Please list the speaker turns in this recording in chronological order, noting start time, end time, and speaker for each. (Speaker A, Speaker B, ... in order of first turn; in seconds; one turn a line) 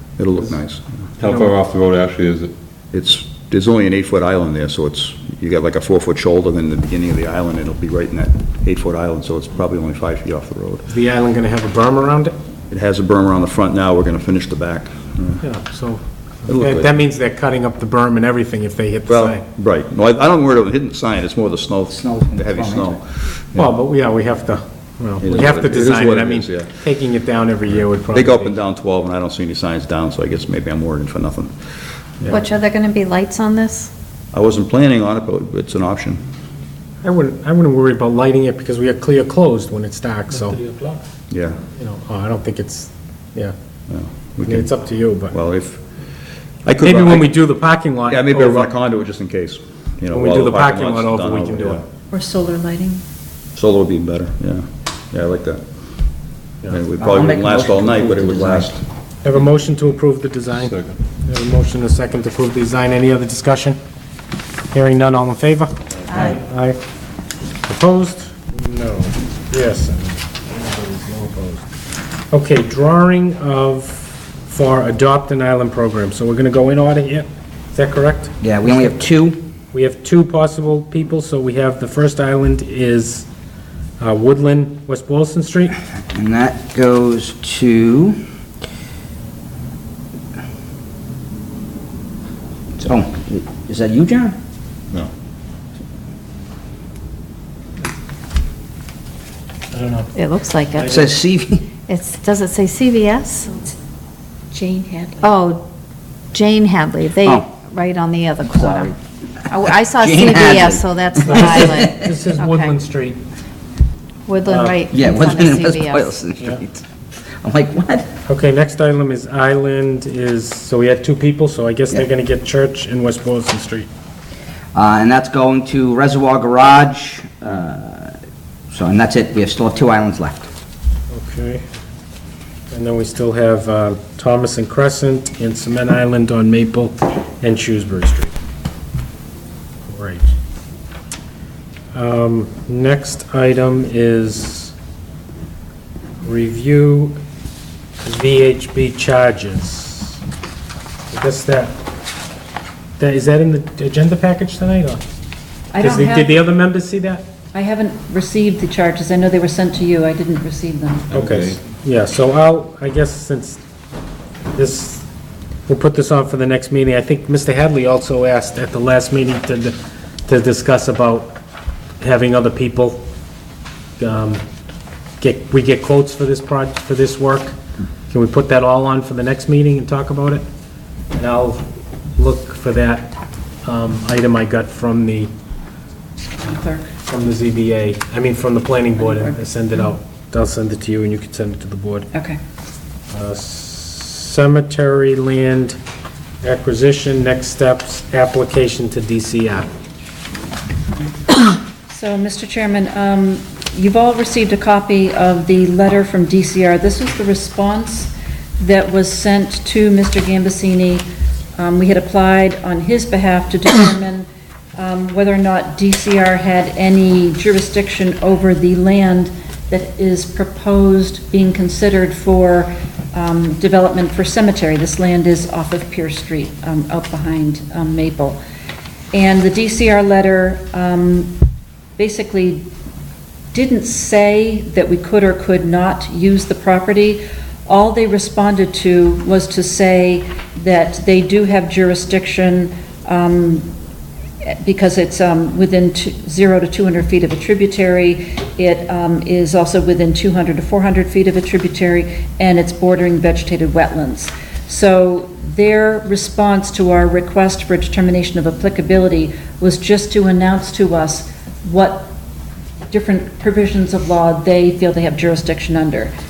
Speaker A: 0.2-0.8
Speaker B: 1.2-2.5
Speaker A: 2.9-10.8
Speaker C: 10.9-12.3
Speaker A: 12.7-15.4
Speaker C: 15.4-19.4
Speaker A: 16.5-16.9
Speaker A: 19.1-23.6
Speaker D: 21.9-22.9
Speaker C: 23.5-28.5
Speaker A: 25.2-26.7
Speaker A: 28.1-31.5
Speaker E: 32.3-33.9
Speaker A: 34.3-36.2
Speaker C: 37.0-40.6
Speaker A: 41.3-41.6
Speaker C: 41.8-43.5
Speaker A: 43.9-44.7
Speaker C: 44.4-45.3
Speaker A: 45.3-45.8
Speaker A: 46.6-47.3
Speaker C: 46.8-48.7
Speaker A: 48.1-51.8
Speaker C: 50.1-51.8
Speaker F: 52.1-53.0
Speaker A: 53.5-55.6
Speaker A: 56.7-58.8
Speaker D: 57.0-58.7
Speaker C: 59.2-63.8
Speaker B: 60.5-61.0
Speaker C: 64.7-66.8
Speaker C: 67.7-71.6
Speaker C: 72.3-78.3
Speaker D: 78.4-79.4
Speaker C: 79.7-83.3
Speaker C: 84.0-85.7
Speaker D: 86.1-88.2
Speaker D: 92.8-94.3
Speaker C: 99.7-100.1
Speaker E: 100.1-100.9
Speaker C: 100.8-101.1
Speaker D: 100.8-101.7
Speaker E: 101.9-103.5
Speaker F: 104.5-105.2
Speaker E: 105.2-105.6
Speaker E: 106.3-108.9
Speaker D: 107.2-107.6
Speaker D: 108.5-108.9
Speaker D: 109.5-112.1
Speaker E: 109.5-112.8
Speaker C: 111.2-113.2
Speaker E: 114.3-116.1
Speaker C: 114.4-114.9
Speaker D: 114.9-116.8
Speaker D: 117.4-118.1
Speaker C: 118.2-123.9
Speaker D: 124.7-128.1
Speaker D: 128.7-130.5
Speaker C: 131.1-131.6
Speaker C: 132.7-138.3
Speaker C: 139.9-140.3
Speaker C: 141.9-144.7
Speaker C: 146.2-147.2
Speaker C: 148.0-150.2
Speaker C: 151.1-151.7
Speaker C: 153.0-155.0
Speaker F: 155.7-156.4
Speaker C: 155.8-157.2
Speaker F: 157.5-161.1
Speaker B: 161.1-161.6
Speaker C: 161.1-163.6
Speaker C: 164.5-165.0
Speaker C: 165.7-171.4
Speaker C: 172.0-173.0
Speaker C: 174.0-174.4
Speaker C: 175.2-177.5
Speaker C: 178.1-180.4
Speaker C: 181.1-181.6
Speaker C: 182.2-183.1
Speaker C: 183.6-185.3
Speaker F: 186.4-186.9
Speaker C: 187.1-192.1
Speaker F: 189.0-189.3
Speaker F: 192.1-192.4
Speaker C: 193.1-195.8
Speaker C: 196.4-199.7
Speaker F: 201.9-214.2
Speaker F: 214.8-228.4
Speaker F: 229.1-231.3
Speaker F: 232.0-232.7
Speaker F: 233.5-243.7
Speaker F: 244.5-262.1
Speaker F: 262.9-266.1